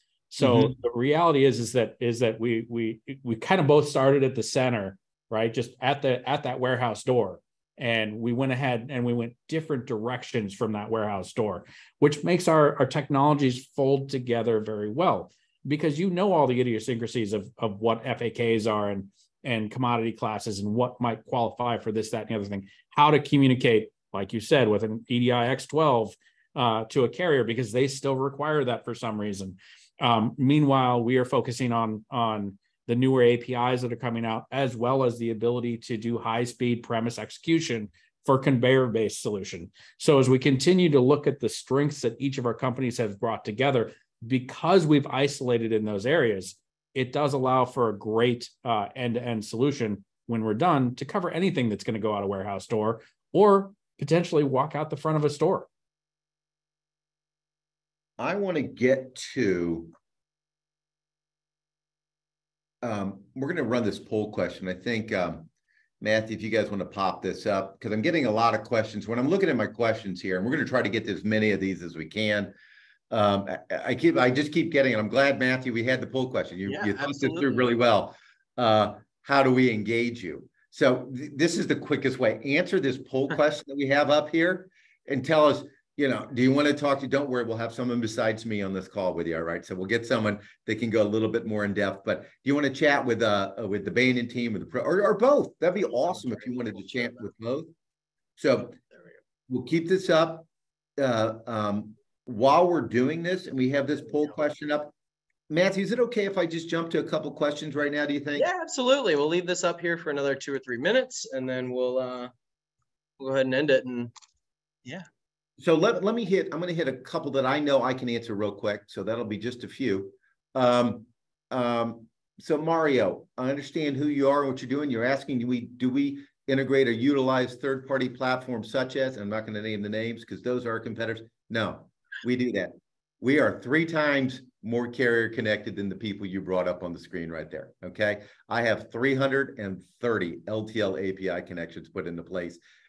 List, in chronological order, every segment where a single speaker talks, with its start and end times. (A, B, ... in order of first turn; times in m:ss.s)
0:00.3-0:55.7 A
0:00.4-0:00.7 B
0:58.2-0:59.9 B
1:02.8-1:05.5 B
1:06.0-1:12.5 B
1:13.1-1:37.7 B
1:16.7-1:17.7 C
1:38.4-1:38.8 B
1:39.5-1:44.9 B
1:45.5-1:48.5 B
1:48.4-1:52.3 C
1:53.2-1:54.1 C
1:55.6-2:22.6 B